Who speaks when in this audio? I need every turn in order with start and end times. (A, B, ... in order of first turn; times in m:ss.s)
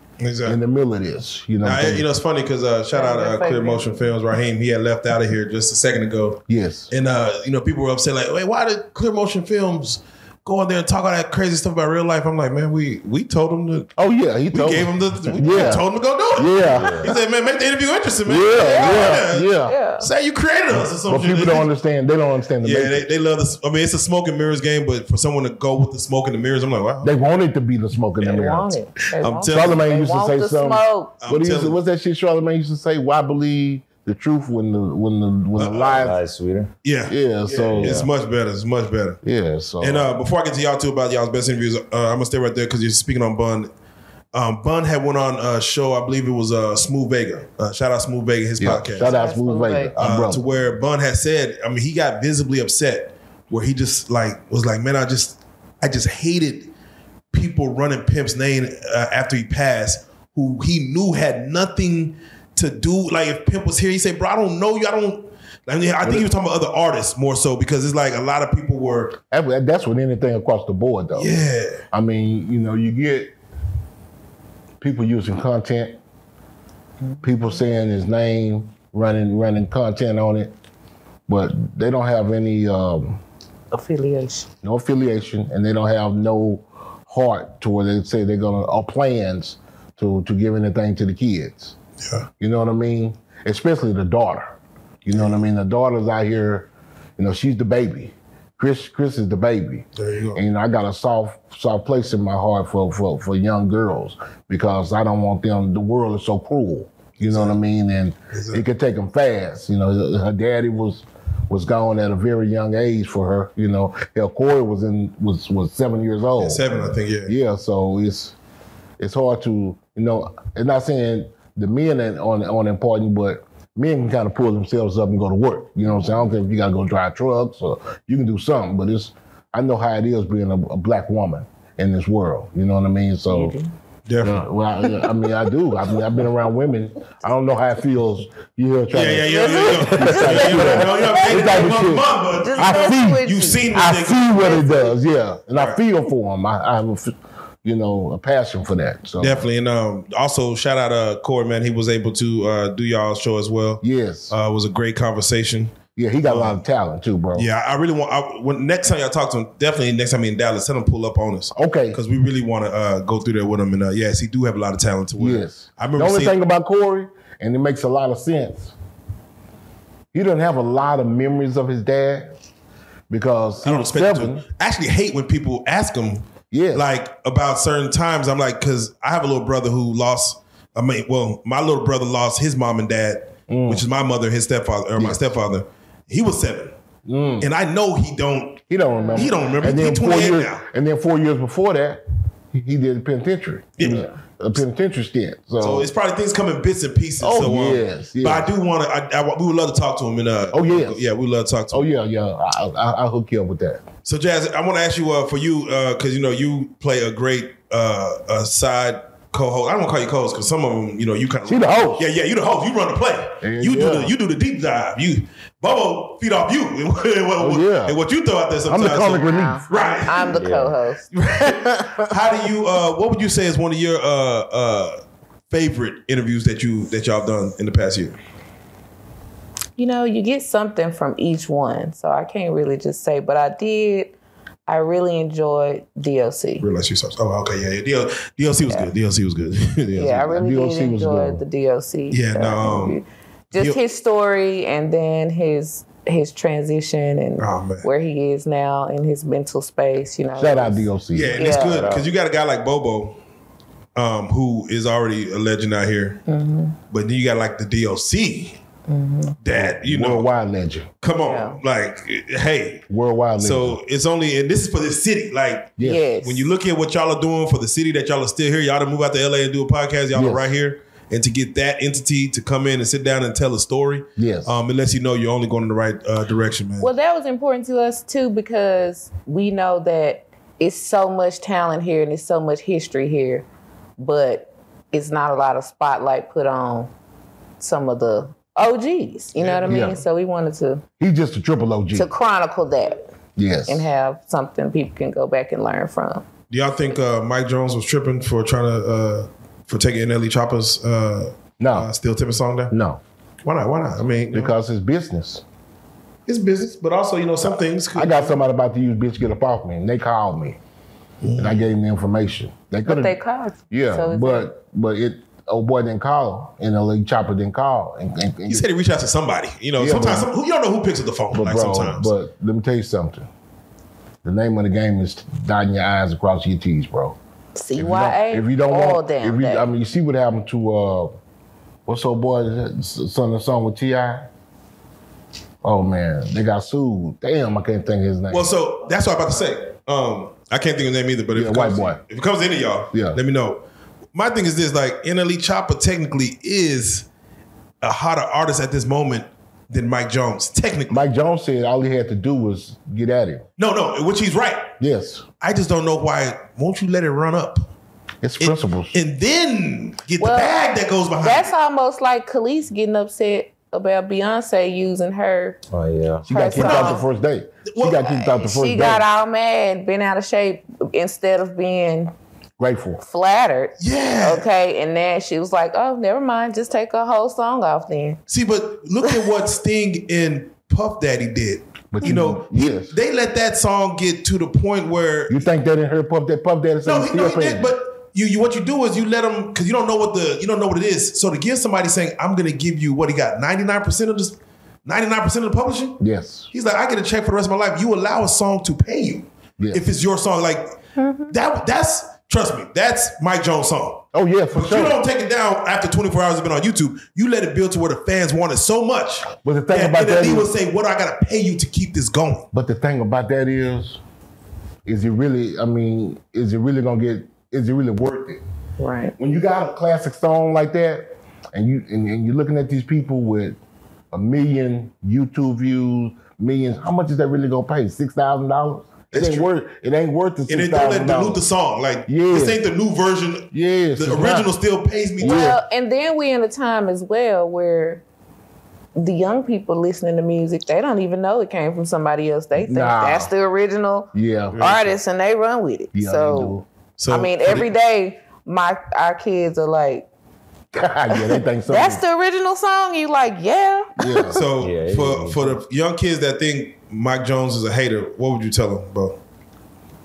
0:00.2-0:00.6 A
0:00.4-0:02.1 B
0:01.6-0:13.9 A
0:02.9-0:04.1 C
0:06.5-0:06.9 B
0:14.0-0:17.0 B
0:14.5-0:21.7 A
0:15.5-0:15.8 C
0:16.6-0:17.2 D
0:18.3-0:19.8 B
0:18.6-0:20.1 C
0:20.7-0:23.1 B
0:22.6-0:27.2 A
0:27.0-0:28.8 B
0:28.2-0:31.2 C
0:29.2-0:29.8 A
0:29.5-0:36.2 B
0:31.2-0:31.8 A
0:35.6-0:36.1 A
0:35.9-0:36.7 D
0:36.8-0:39.2 A
0:37.1-0:38.1 B
0:37.7-0:38.1 D
0:39.2-0:40.1 B
0:39.8-0:43.7 A
0:44.3-0:49.1 A
0:48.6-0:50.4 B
0:49.0-0:49.9 C
0:50.0-0:56.7 A
0:57.3-1:09.2 A
1:09.3-1:13.3 B
1:11.2-1:11.8 A
1:14.8-1:16.0 B
1:17.2-1:20.5 B
1:21.3-1:23.2 B
1:23.7-1:24.5 C
1:24.6-1:31.8 B
1:32.4-1:34.5 B
1:35.0-1:56.6 B
1:35.1-1:35.4 A
1:40.0-1:40.4 A
1:47.2-1:47.6 A
1:48.3-1:48.6 A
1:56.4-1:57.4 A
1:57.3-1:58.4 B
1:59.0-2:13.6 B
2:13.3-2:13.7 C
2:14.1-2:14.5 A
2:14.2-2:29.4 B
2:18.9-2:24.3 A
2:19.2-2:25.0 C
2:25.5-2:25.8 A
2:29.2-2:36.6 A
2:33.8-2:34.4 B
2:36.0-2:37.5 B
2:37.4-2:46.4 A
2:41.6-2:42.0 B
2:45.2-2:48.8 B
2:50.1-2:52.3 B
2:53.1-2:54.4 B
2:53.6-3:06.7 A
2:56.5-2:56.9 B
3:03.5-3:03.8 B
3:05.0-3:05.3 B
3:07.1-3:07.5 B
3:07.4-3:10.6 A
3:08.7-3:15.9 B
3:09.0-3:09.3 C
3:13.8-3:14.1 A
3:15.6-3:21.9 A
3:17.2-3:18.5 B
3:20.5-3:21.0 B
3:21.7-3:23.8 B
3:24.0-3:40.4 A
3:31.5-3:32.1 B
3:33.4-3:34.1 B
3:37.4-3:38.0 B
3:38.7-3:39.7 B
3:39.0-3:42.1 C
3:40.3-3:40.8 D
3:41.1-3:48.2 A
3:49.8-3:54.2 C
3:54.7-3:56.7 C
3:56.6-4:00.3 A
4:00.0-4:10.8 C
4:00.2-4:01.4 B
4:02.1-4:03.0 A
4:03.5-4:03.8 A
4:07.4-4:07.9 A
4:10.4-4:11.4 B
4:11.1-4:13.2 A
4:11.4-4:11.9 C
4:11.5-4:12.1 D
4:14.0-4:16.2 A
4:16.3-4:16.8 C
4:16.9-4:18.6 A
4:18.9-4:19.4 C
4:19.4-4:20.3 A
4:19.8-4:20.9 B
4:21.0-4:22.8 A
4:21.2-4:21.6 C
4:22.9-4:23.8 B
4:23.4-4:36.9 A
4:25.8-4:26.1 B
4:25.8-4:26.5 C
4:30.1-4:30.5 B
4:34.2-4:34.6 B
4:36.8-4:43.5 C
4:44.0-4:46.9 C
4:47.6-4:50.8 C
4:49.4-4:49.9 A
4:49.7-4:50.0 B
4:51.0-4:52.1 B
4:51.9-4:53.0 C
4:53.4-4:53.9 B
4:53.7-4:56.2 C
4:56.5-5:02.7 A
5:01.6-5:01.9 B
5:02.7-5:03.0 B
5:03.4-5:04.5 A
5:04.3-5:05.4 B
5:06.3-5:08.4 A
5:07.9-5:10.6 B
5:11.2-5:11.7 A
5:11.4-5:13.2 B
5:12.8-5:14.5 C
5:13.7-5:18.7 B
5:18.5-5:22.1 A
5:19.8-5:20.3 B
5:21.3-5:23.3 B
5:24.2-5:27.2 B
5:27.6-5:29.7 C
5:27.8-5:31.2 B
5:31.9-5:34.3 B
5:35.6-5:38.5 B
5:38.3-5:43.6 A
5:41.4-5:42.0 B
5:42.9-5:43.2 B
5:44.1-5:47.1 A
5:47.8-5:51.0 A
5:50.9-5:53.4 B
5:53.6-5:54.7 A
5:54.8-5:55.2 B
5:55.4-5:57.6 A
5:58.2-5:59.0 B
5:58.4-6:01.5 A
6:00.2-6:00.6 C
6:01.2-6:05.6 C
6:05.7-6:06.3 D
6:06.3-6:09.0 B
6:06.3-6:07.0 C
6:06.6-6:07.0 A
6:07.7-6:08.0 A
6:08.0-6:12.1 C
6:12.6-6:13.0 B
6:13.0-6:18.2 C
6:13.8-6:14.5 A
6:18.3-6:25.4 A
6:21.9-6:23.0 B
6:25.3-6:27.7 B
6:26.8-6:36.0 A
6:36.0-6:36.5 B
6:36.5-6:40.8 A
6:39.6-6:39.8 B
6:41.0-6:41.3 C
6:41.3-6:52.5 A
6:44.1-6:45.0 B
6:49.4-6:50.5 B
6:52.5-6:54.0 B
6:54.8-6:58.4 B
6:58.8-6:59.2 C
6:59.2-7:03.6 B
7:04.1-7:11.4 B
7:09.1-7:09.5 A
7:10.5-7:15.6 A
7:12.1-7:12.6 B
7:13.5-7:14.5 B
7:15.2-7:15.6 B
7:15.2-7:18.0 C
7:19.0-7:26.6 C
7:22.6-7:23.3 B
7:24.1-7:24.7 B
7:24.5-7:24.9 A
7:25.9-7:26.7 B
7:27.0-7:27.7 A
7:27.1-7:30.1 C
7:30.7-7:32.0 B
7:31.1-7:34.4 C
7:34.0-7:34.4 B
7:34.3-7:39.2 A
7:34.6-7:35.6 D